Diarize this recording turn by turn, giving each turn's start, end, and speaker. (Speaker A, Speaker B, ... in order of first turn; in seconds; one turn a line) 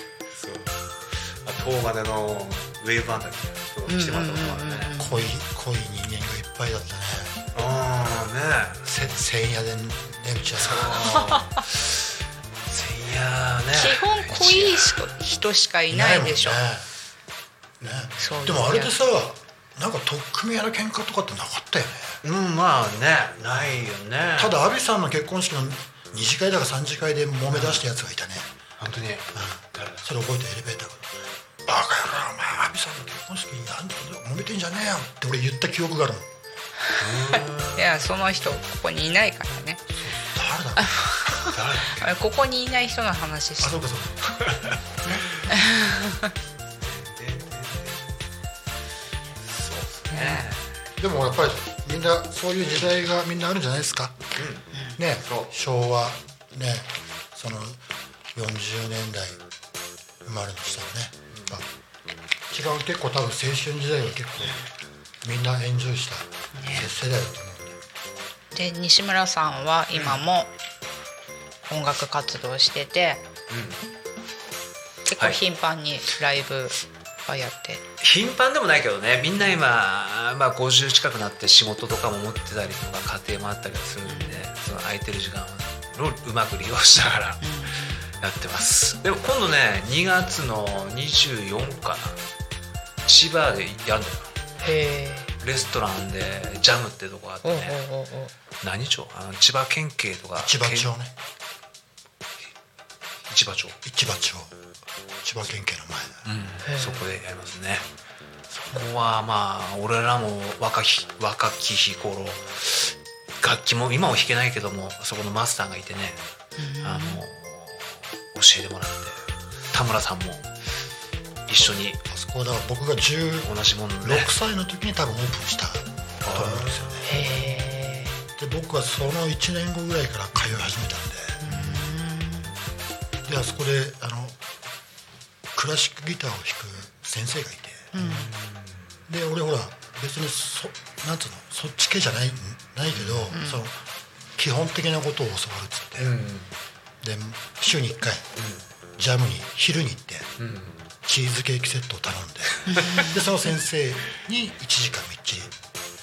Speaker A: 0.3-4.9
Speaker B: 3.9-5.3
Speaker C: 5.0-7.3
Speaker A: 7.5-8.8
Speaker C: 8.8-11.2
Speaker A: 10.6-11.8
Speaker B: 11.1-11.4
Speaker A: 12.7-15.0
Speaker B: 13.7-16.6
Speaker C: 15.9-16.9
Speaker A: 17.8-18.5
Speaker C: 17.8-22.2
Speaker B: 18.2-18.9
Speaker A: 22.2-24.6
Speaker C: 24.4-28.5
Speaker A: 27.5-27.8
Speaker A: 28.8-30.0
Speaker C: 29.3-36.3
Speaker A: 37.0-38.0
Speaker B: 37.3-39.8
Speaker C: 39.9-41.1
Speaker B: 40.8-43.8
Speaker A: 41.5-42.0
Speaker C: 43.6-44.3
Speaker A: 44.4-44.8
Speaker B: 45.0-46.3
Speaker A: 46.8-48.2
Speaker A: 49.4-50.7
Speaker B: 50.1-50.5
Speaker C: 51.0-54.2
Speaker A: 52.6-52.9
Speaker A: 54.4-54.7
Speaker C: 55.0-57.8
Speaker A: 55.2-55.5
Speaker C: 58.3-59.4
Speaker C: 60.2-61.6
Speaker A: 61.3-61.6
Speaker C: 62.5-64.6
Speaker C: 65.2-67.8
Speaker B: 66.5-66.9
Speaker B: 68.5-70.5
Speaker A: 69.9-70.2
Speaker B: 71.7-73.2
Speaker A: 73.5-73.8
Speaker B: 75.0-77.8
Speaker A: 78.0-87.5
Speaker B: 84.0-84.4
Speaker B: 87.4-88.0
Speaker A: 88.1-92.2
Speaker A: 93.0-94.3
Speaker B: 94.6-95.3
Speaker A: 95.4-97.8
Speaker B: 97.4-98.3
Speaker A: 98.6-100.9
Speaker C: 100.4-101.1
Speaker A: 103.3-103.8
Speaker C: 103.8-104.5
Speaker C: 105.2-106.3
Speaker A: 106.2-107.8
Speaker B: 106.6-107.0
Speaker A: 108.5-116.2
Speaker B: 116.6-117.2
Speaker A: 116.8-120.5
Speaker A: 121.5-122.0
Speaker C: 122.1-123.5
Speaker A: 123.4-124.3
Speaker C: 124.0-127.0
Speaker A: 126.2-127.1
Speaker B: 127.0-128.2
Speaker C: 128.4-131.5
Speaker B: 131.4-132.5
Speaker A: 131.4-131.8
Speaker C: 133.2-134.4
Speaker C: 135.5-137.9
Speaker B: 137.9-138.3
Speaker A: 137.9-138.9
Speaker C: 139.1-143.7
Speaker A: 142.9-143.3
Speaker B: 143.3-143.6
Speaker C: 144.3-146.2
Speaker A: 146.0-146.5
Speaker C: 147.0-148.2
Speaker A: 148.4-148.6
Speaker C: 149.0-150.3
Speaker A: 150.4-150.8
Speaker C: 151.0-155.5
Speaker B: 152.7-153.2
Speaker A: 152.7-153.0